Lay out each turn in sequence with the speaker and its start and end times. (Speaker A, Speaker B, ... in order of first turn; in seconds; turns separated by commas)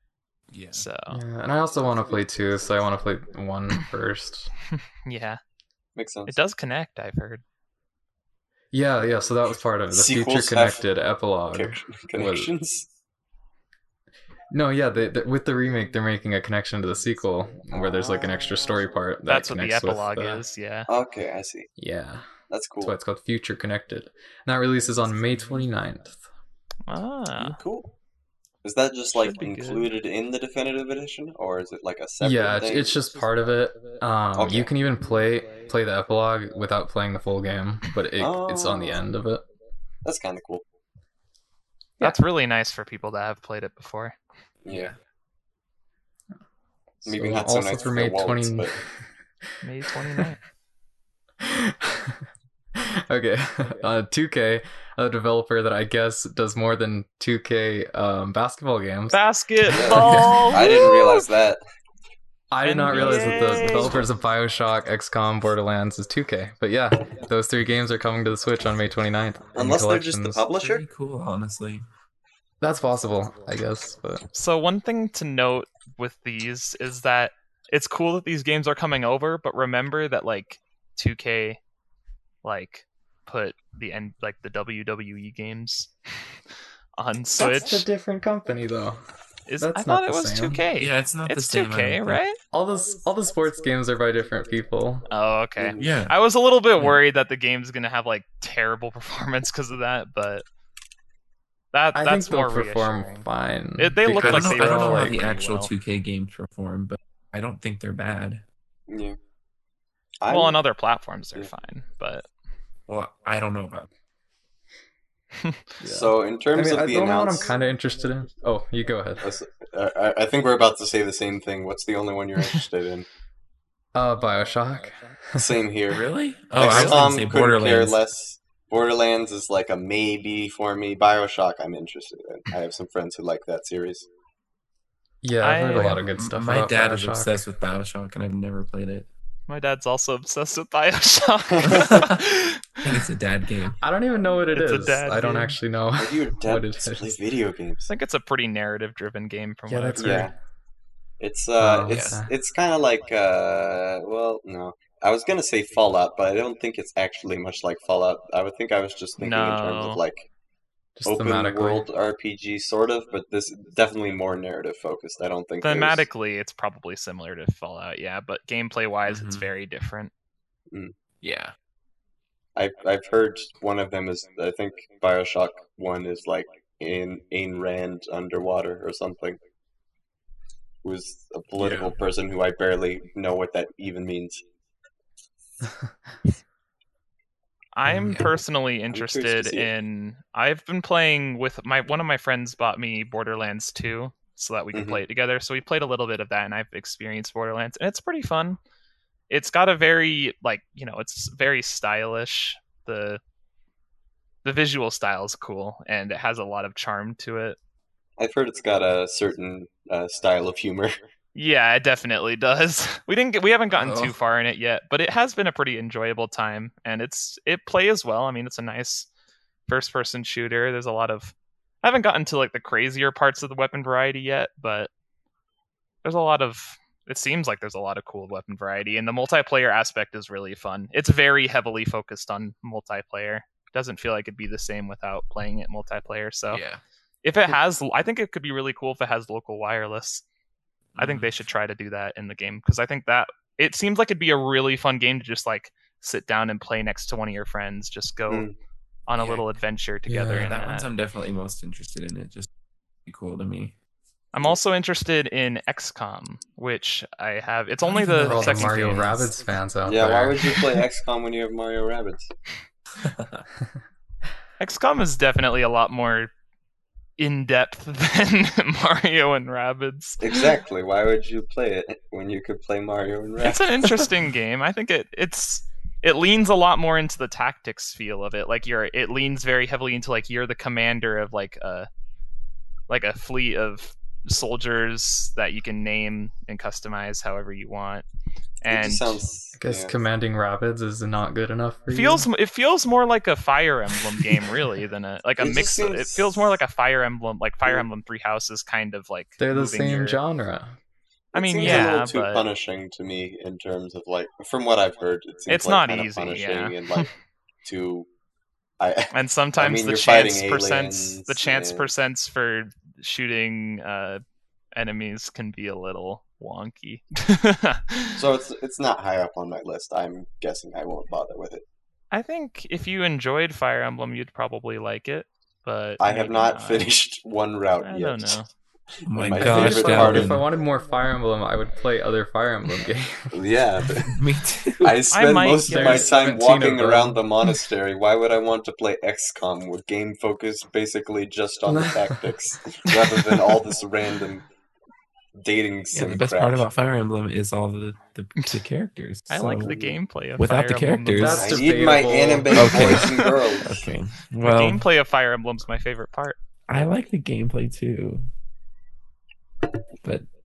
Speaker A: 0.5-0.9, Speaker B: 0.7-1.2, Speaker C: 1.1-4.5, Speaker B: 5.0-5.4, Speaker D: 5.9-6.3, Speaker B: 6.3-7.4, Speaker C: 8.7-12.5, Speaker D: 9.9-10.8, Speaker D: 11.5-12.8, Speaker C: 14.5-20.4, Speaker D: 17.7-18.6, Speaker B: 19.3-20.9, Speaker D: 20.9-21.7, Speaker C: 21.8-22.3, Speaker D: 22.5-22.9, Speaker C: 22.8-26.2, Speaker B: 26.9-27.6, Speaker D: 27.4-27.9, Speaker D: 28.6-33.0, Speaker B: 29.1-29.9, Speaker C: 32.2-39.4, Speaker D: 34.4-34.7, Speaker D: 38.2-39.0, Speaker D: 40.0-40.6, Speaker B: 42.0-44.2, Speaker D: 44.6-44.9, Speaker A: 44.6-45.0, Speaker C: 47.0-48.9, Speaker D: 47.0-48.7, Speaker B: 49.6-50.4, Speaker C: 51.4-52.2, Speaker C: 52.7-59.2, Speaker B: 59.1-61.3, Speaker D: 59.7-61.6, Speaker C: 59.7-60.5, Speaker C: 62.5-70.4, Speaker B: 62.6-64.0, Speaker D: 63.0-64.0, Speaker D: 69.5-70.8, Speaker A: 70.5-71.8, Speaker C: 72.6-74.2, Speaker B: 74.3-81.6, Speaker B: 82.4-85.9, Speaker B: 87.0-87.8, Speaker C: 87.4-89.0, Speaker B: 89.5-92.4, Speaker C: 89.6-90.6, Speaker A: 90.8-92.2, Speaker C: 92.5-95.1, Speaker B: 95.1-100.4, Speaker D: 95.6-96.0, Speaker A: 95.8-96.1, Speaker B: 101.7-103.2, Speaker C: 101.9-105.2, Speaker B: 103.8-105.7, Speaker A: 104.2-108.4, Speaker D: 108.9-109.2, Speaker D: 110.2-110.6, Speaker B: 110.3-112.3, Speaker A: 112.9-113.9, Speaker C: 115.8-119.2, Speaker D: 115.8-117.5, Speaker D: 119.2-123.1, Speaker C: 123.9-125.6, Speaker D: 125.4-134.1, Speaker A: 125.9-128.0, Speaker B: 126.6-127.0, Speaker C: 135.2-137.4, Speaker B: 135.4-136.0, Speaker A: 135.8-139.1, Speaker B: 139.5-143.1, Speaker D: 141.5-142.1, Speaker A: 141.7-142.2, Speaker A: 142.8-143.8, Speaker C: 143.8-147.0, Speaker B: 144.5-145.6, Speaker D: 146.0-147.9, Speaker B: 147.9-150.3, Speaker C: 149.7-150.3, Speaker D: 149.9-150.3, Speaker D: 151.2-160.3, Speaker C: 151.6-152.3, Speaker A: 151.9-152.2, Speaker B: 159.2-160.0, Speaker C: 160.9-161.9, Speaker D: 161.0-166.1, Speaker B: 165.6-170.1, Speaker A: 169.1-169.5, Speaker A: 171.2-171.5, Speaker D: 172.6-179.4, Speaker D: 180.8-184.4, Speaker A: 181.6-181.9, Speaker B: 187.7-198.6, Speaker A: 187.9-188.3, Speaker D: 188.9-189.7, Speaker D: 194.7-195.0, Speaker B: 199.3-203.2, Speaker B: 204.4-207.6, Speaker D: 208.2-211.0, Speaker B: 211.3-219.1, Speaker A: 213.7-214.1, Speaker B: 219.7-224.9, Speaker B: 226.0-236.6, Speaker A: 236.5-236.8, Speaker B: 237.2-240.2, Speaker A: 240.9-241.3, Speaker B: 241.0-248.4, Speaker D: 248.3-248.5, Speaker B: 249.1-250.9, Speaker A: 249.2-249.5, Speaker C: 250.1-250.5, Speaker A: 250.3-252.5, Speaker A: 253.1-253.7, Speaker B: 254.3-259.2, Speaker A: 257.9-258.8, Speaker C: 258.2-260.6, Speaker D: 259.8-262.3, Speaker A: 263.0-263.4, Speaker B: 264.6-266.3, Speaker B: 267.2-270.5, Speaker D: 270.2-274.1, Speaker B: 273.4-281.9, Speaker B: 282.9-288.0, Speaker B: 288.6-289.2, Speaker D: 288.7-289.9, Speaker C: 289.6-292.2, Speaker B: 291.9-300.2, Speaker D: 295.4-296.6, Speaker C: 299.4-300.7, Speaker D: 301.3-307.1, Speaker B: 301.3-302.4, Speaker B: 305.5-307.1, Speaker D: 307.6-308.1, Speaker D: 308.8-311.9, Speaker B: 309.1-314.2, Speaker B: 314.7-318.2, Speaker D: 318.1-321.6, Speaker B: 322.1-326.9, Speaker D: 326.0-328.4, Speaker B: 327.8-328.5, Speaker A: 329.1-330.4, Speaker D: 329.1-330.4, Speaker C: 329.4-333.3, Speaker D: 333.3-334.2, Speaker A: 334.0-335.1, Speaker D: 334.8-344.4, Speaker B: 335.1-336.1, Speaker C: 335.7-337.2, Speaker C: 341.7-342.3, Speaker D: 345.4-346.6, Speaker A: 345.9-349.7, Speaker B: 349.3-351.5, Speaker D: 349.6-349.9, Speaker A: 350.4-351.5, Speaker C: 351.1-353.0, Speaker D: 351.4-353.9, Speaker A: 352.5-354.8, Speaker B: 354.4-356.4, Speaker A: 356.7-358.2